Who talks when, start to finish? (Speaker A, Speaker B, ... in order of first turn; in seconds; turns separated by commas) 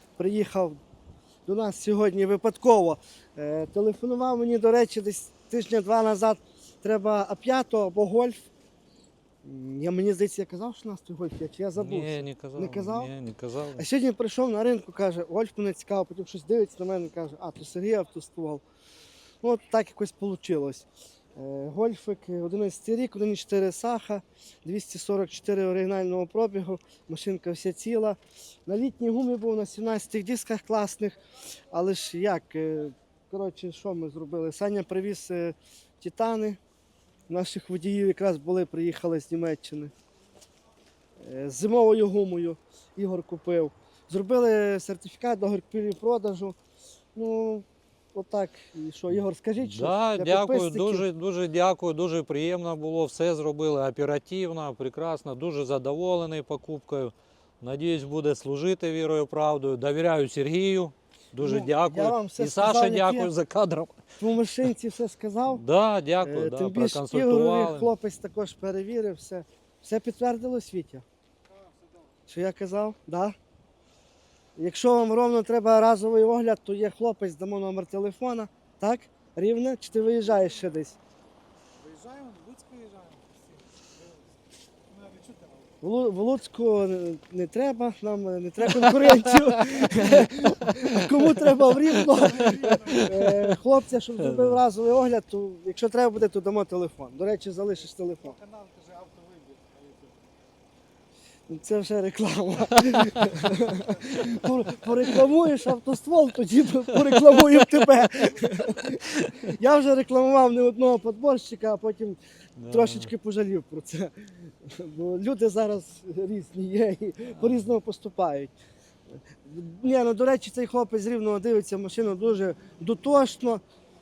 Speaker A: 0.2-0.8, Speaker A: 1.4-8.5, Speaker A: 9.4-13.1, Speaker B: 11.7-13.8, Speaker A: 13.8-18.6, Speaker A: 19.4-31.2, Speaker A: 31.7-36.6, Speaker A: 37.3-39.9, Speaker A: 41.2-46.6, Speaker A: 47.1-51.0, Speaker B: 49.6-64.0, Speaker A: 61.4-63.3, Speaker A: 64.2-65.6, Speaker B: 65.5-67.9, Speaker A: 66.2-71.0, Speaker A: 72.3-73.3, Speaker A: 74.5-81.0, Speaker C: 81.8-84.2, Speaker C: 84.9-85.7, Speaker A: 85.8-98.4, Speaker B: 88.7-93.6, Speaker C: 92.4-92.9, Speaker B: 94.2-94.6, Speaker C: 98.3-100.3, Speaker A: 101.5-118.5, Speaker B: 102.8-103.5, Speaker B: 104.1-105.1, Speaker B: 107.0-109.3, Speaker B: 112.6-113.1, Speaker A: 119.3-123.6